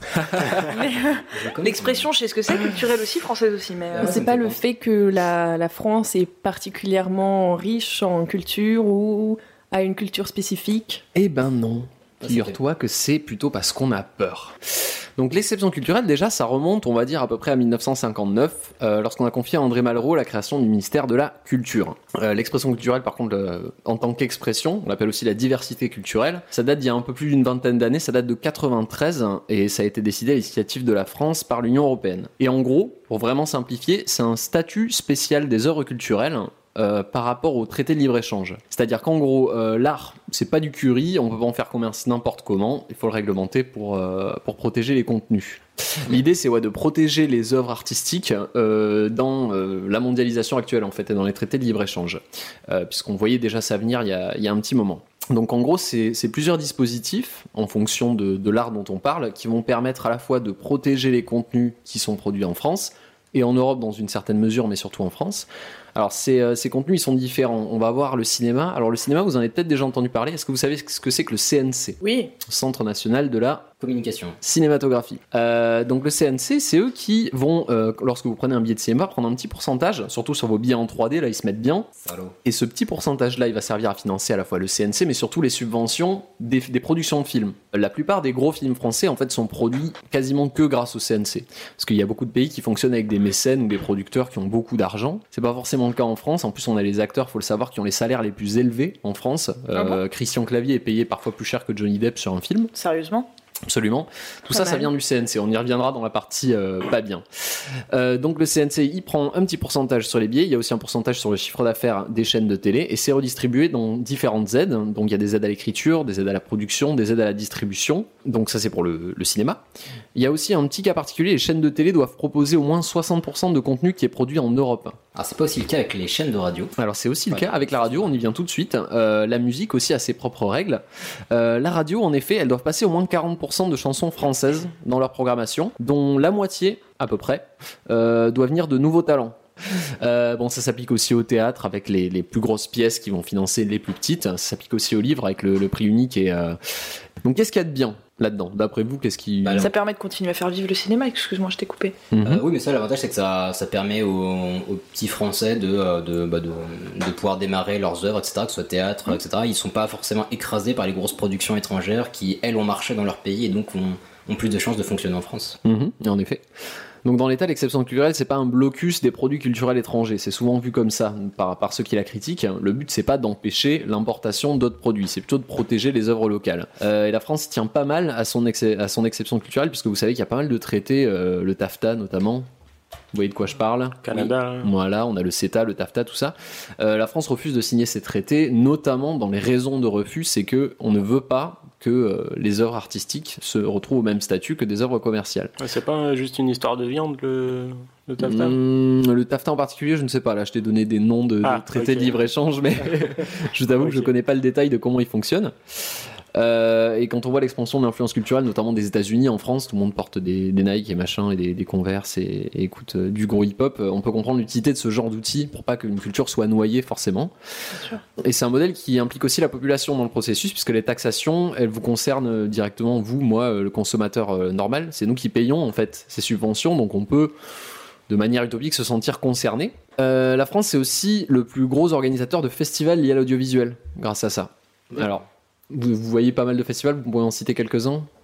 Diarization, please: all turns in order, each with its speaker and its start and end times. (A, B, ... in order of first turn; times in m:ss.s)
0:00.5-0:04.2 A
0:01.3-0:02.1 B
0:03.9-0:04.6 B
0:04.0-0:11.0 C
0:11.2-1:13.7 D
0:12.2-0:12.6 B
1:12.0-1:12.3 A
1:13.8-1:14.4 B
1:14.4-1:21.9 D
1:22.0-1:22.4 B
1:22.4-1:42.7 D
1:42.7-1:43.3 A
1:43.7-1:59.6 D
1:44.5-1:44.9 C
2:00.2-2:05.0 D
2:05.2-2:06.8 B
2:06.8-2:29.7 D
2:07.3-2:08.1 B
2:29.4-2:29.7 B
2:29.6-2:32.0 A
2:32.1-2:32.4 D
2:32.2-2:45.6 B
2:45.6-2:46.4 D
2:47.0-3:02.5 D
3:03.1-3:15.5 D
3:04.0-3:04.7 E
3:15.6-3:18.6 E
3:18.2-3:37.3 D
3:21.4-3:22.1 E
3:37.7-3:38.0 A
3:38.2-3:47.3 D
3:48.1-3:58.1 D